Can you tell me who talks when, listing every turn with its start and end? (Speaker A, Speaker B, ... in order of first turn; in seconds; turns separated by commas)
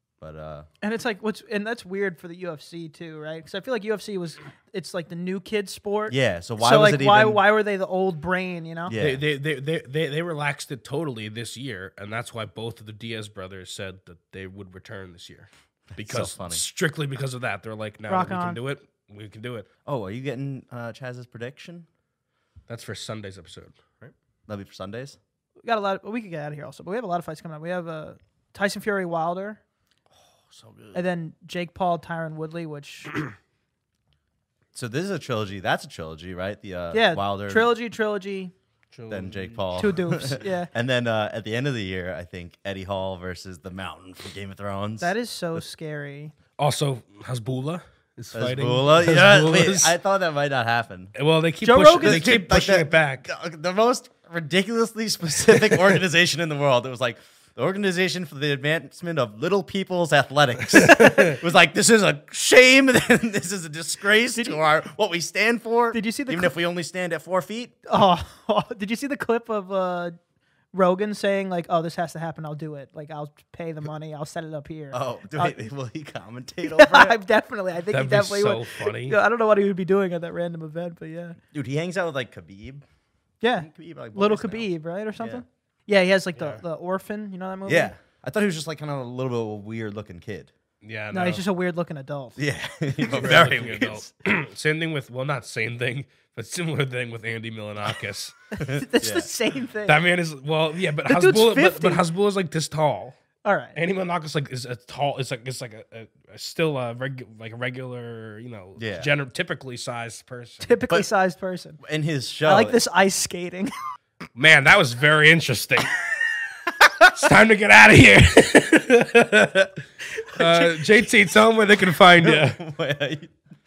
Speaker A: 0.2-0.7, Speaker B: 0.8-8.9, Speaker A: 6.1-7.4, Speaker A: 8.9-9.2, Speaker C: 9.0-19.7, Speaker A: 15.9-16.6, Speaker B: 18.1-18.6, Speaker A: 19.9-21.9, Speaker C: 22.7-24.1, Speaker A: 24.5-25.2, Speaker B: 25.6-29.6, Speaker C: 30.5-31.0, Speaker B: 30.9-33.1, Speaker A: 34.7-37.7, Speaker B: 36.9-38.5, Speaker C: 38.9-40.0, Speaker A: 39.1-45.1, Speaker B: 39.8-40.7, Speaker B: 45.0-46.3, Speaker C: 46.6-50.0, Speaker A: 48.3-51.1, Speaker C: 51.1-53.3, Speaker B: 51.6-52.4, Speaker A: 52.0-67.8, Speaker C: 60.7-61.4, Speaker B: 61.0-61.4, Speaker B: 65.9-66.6, Speaker B: 67.9-70.2, Speaker B: 70.7-75.6, Speaker A: 74.9-77.2, Speaker B: 76.6-81.4, Speaker C: 77.9-79.2, Speaker A: 81.5-82.8, Speaker B: 83.4-87.9, Speaker A: 83.6-85.4, Speaker C: 86.4-86.6, Speaker A: 87.7-90.5, Speaker C: 90.8-91.4, Speaker B: 91.1-92.4, Speaker A: 92.4-94.0, Speaker B: 93.0-94.0, Speaker C: 93.1-98.3, Speaker B: 98.5-100.0, Speaker A: 98.6-99.3, Speaker C: 99.9-103.2, Speaker B: 101.1-102.0, Speaker B: 103.5-103.8, Speaker C: 103.8-110.8, Speaker A: 108.8-109.1, Speaker B: 110.6-111.8, Speaker A: 111.8-112.8, Speaker B: 112.5-113.7, Speaker C: 114.3-116.2, Speaker C: 117.0-122.6, Speaker B: 120.2-120.7, Speaker A: 122.2-123.3